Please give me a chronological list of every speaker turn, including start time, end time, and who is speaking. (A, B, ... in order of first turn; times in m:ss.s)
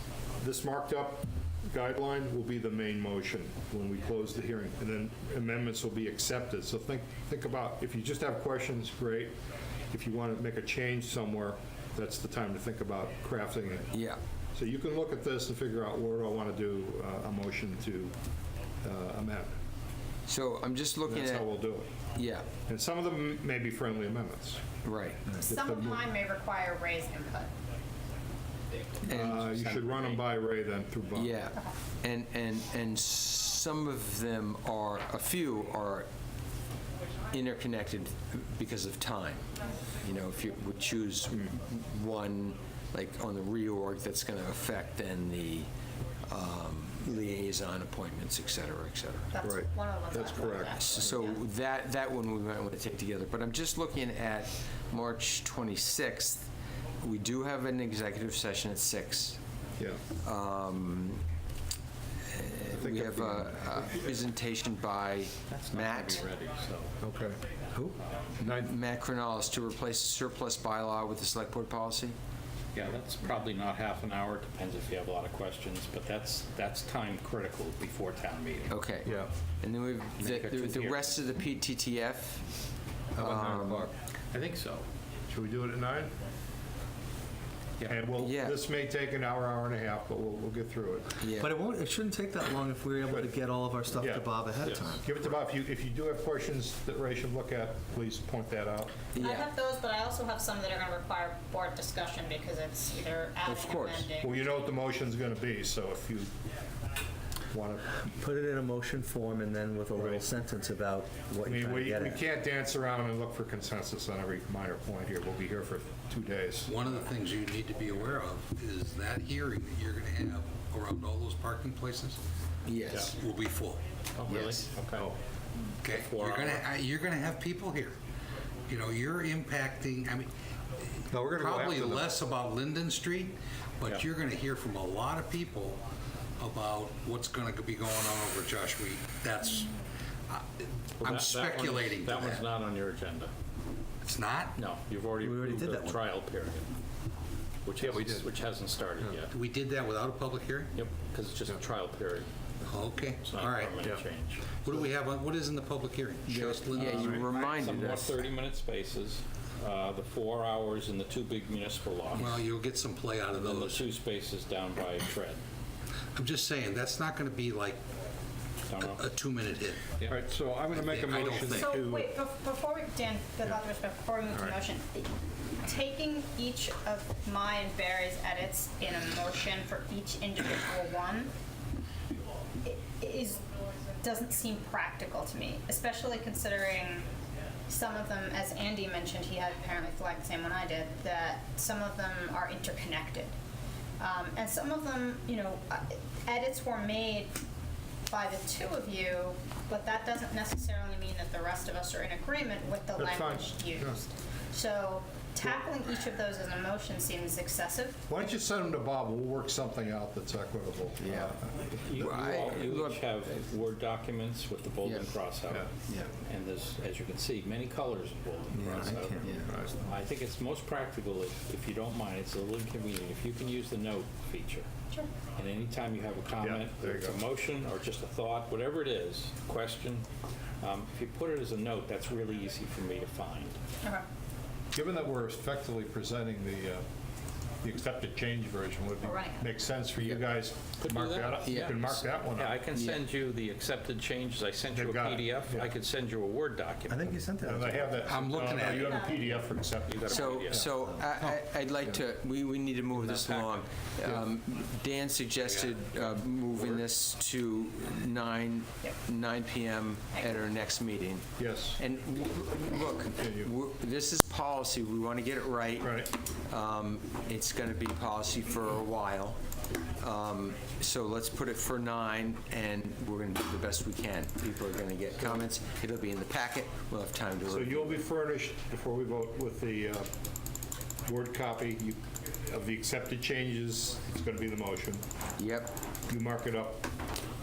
0:00.4-0:09.3 A
0:09.9-0:13.9 A
0:13.9-0:14.2 B
0:14.5-0:18.1 A
0:18.8-0:19.5 A
0:20.3-0:21.5 B
0:21.0-0:21.9 A
0:22.1-0:22.5 B
0:22.7-0:24.6 A
0:24.8-0:25.2 B
0:25.4-0:27.5 C
0:25.5-0:26.0 A
0:29.0-0:30.2 D
0:29.0-0:31.4 A
0:29.1-0:29.4 B
0:31.1-0:36.1 B
0:37.3-0:39.4 B
0:40.0-0:45.7 B
0:46.3-0:49.4 B
0:49.3-0:51.4 C
0:49.4-0:51.0 A
0:50.6-0:56.4 B
0:57.0-0:59.4 B
1:00.2-1:01.2 B
1:02.3-1:06.2 B
1:02.7-1:03.8 A
1:05.5-1:06.9 D
1:07.0-1:07.4 A
1:08.0-1:08.3 D
1:08.4-1:08.7 A
1:08.4-1:12.2 B
1:12.7-1:18.7 D
1:18.7-1:22.4 B
1:20.2-1:21.2 D
1:23.2-1:23.9 B
1:23.2-1:23.9 A
1:24.3-1:24.8 D
1:25.3-1:26.1 A
1:27.8-1:31.2 A
1:28.2-1:28.6 B
1:31.2-1:31.5 B
1:31.4-1:35.0 E
1:33.0-1:33.3 A
1:34.0-1:34.4 A
1:34.6-1:34.9 D
1:34.9-1:38.9 A
1:39.1-1:39.5 B
1:39.2-1:44.4 C
1:43.4-1:44.1 B
1:44.2-1:46.3 A
1:47.5-1:47.8 A
1:48.0-1:52.2 E
1:49.9-1:50.2 A
1:51.4-1:56.9 A
1:56.6-2:02.2 F
2:02.6-2:03.1 B
2:03.1-2:03.8 F
2:04.2-2:05.1 D
2:04.3-2:04.6 B
2:05.8-2:07.9 F
2:05.9-2:06.6 D
2:08.7-2:10.3 F
2:11.1-2:12.1 A
2:11.3-2:15.8 F
2:16.4-2:19.7 F
2:21.0-2:23.3 D
2:21.0-2:22.4 F
2:24.0-2:24.6 F
2:24.5-2:26.7 D
2:25.2-2:26.0 E
2:27.6-2:29.3 D
2:27.8-2:28.2 A
2:29.3-2:30.7 F
2:30.7-2:32.3 D
2:32.6-2:33.8 F
2:33.2-2:34.6 D
2:34.6-2:37.3 F
2:36.3-2:38.3 B
2:36.8-2:42.4 D
2:36.9-2:37.2 A
2:42.1-2:43.8 F
2:43.4-2:45.4 D
2:46.2-2:47.8 F
2:48.7-2:49.0 D
2:48.8-2:49.9 F
2:50.1-2:52.1 A
2:50.7-2:51.7 F
2:51.5-2:55.1 C
2:55.6-3:01.3 C
3:02.6-3:03.4 C
3:04.0-3:07.0 C
3:07.7-3:13.3 C
3:14.0-3:17.3 C
3:18.1-3:28.0 C
3:23.0-3:24.0 A
3:28.1-3:32.5 A
3:31.0-3:31.3 B
3:31.8-3:35.7 D
3:31.9-3:33.0 B
3:36.2-3:44.7 D
3:38.5-3:38.9 E
3:39.0-3:39.4 B
3:39.3-3:39.8 A
3:45.4-3:50.0 D
3:46.4-3:47.2 A
3:50.6-3:53.6 D
3:54.7-3:56.8 A
3:57.6-4:02.6 A
3:59.0-3:59.4 C
4:00.8-4:07.1 D
4:01.4-4:02.0 B
4:02.6-4:03.0 B
4:04.7-4:05.7 A
4:06.9-4:08.2 E
4:07.4-4:10.7 A
4:08.1-4:09.0 F
4:08.8-4:09.1 C
4:09.9-4:10.7 D
4:10.1-4:21.2 B
4:12.9-4:13.6 D
4:15.4-4:15.7 F
4:16.5-4:16.8 A
4:21.4-4:21.8 A
4:21.8-4:29.4 B
4:23.2-4:23.5 A
4:25.8-4:26.1 A
4:30.0-4:38.0 B
4:35.2-4:35.4 A
4:37.5-4:40.1 A
4:41.0-4:45.0 A
4:45.4-4:45.7 B
4:46.1-4:46.8 A